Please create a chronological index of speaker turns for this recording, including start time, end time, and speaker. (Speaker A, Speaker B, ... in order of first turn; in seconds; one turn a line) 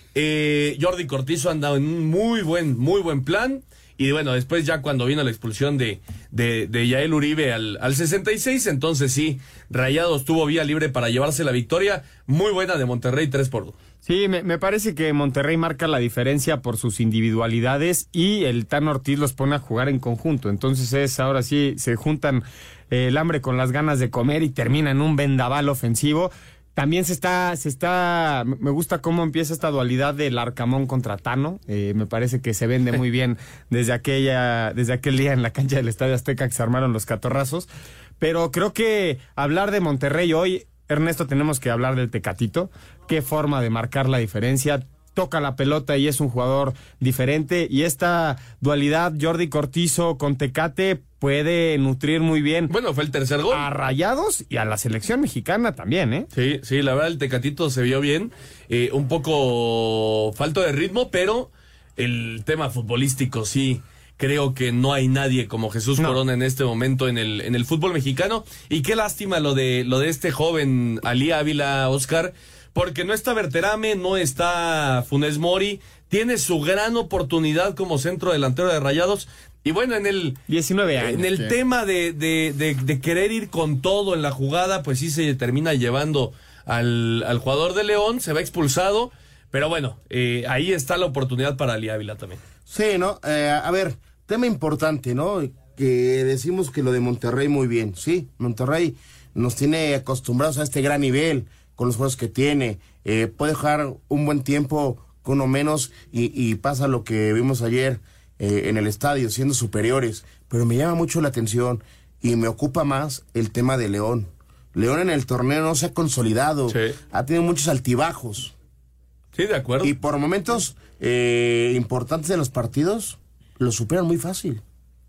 Speaker A: 0.1-13.8
Speaker B: 14.1-37.7
Speaker B: 38.2-52.7
Speaker A: 52.7-53.7
Speaker B: 53.5-56.3
Speaker A: 56.3-80.4
Speaker B: 80.5-81.5
Speaker A: 81.0-92.4
Speaker C: 92.7-118.5
Speaker A: 116.7-117.0
Speaker A: 119.3-119.9
Speaker C: 119.8-124.6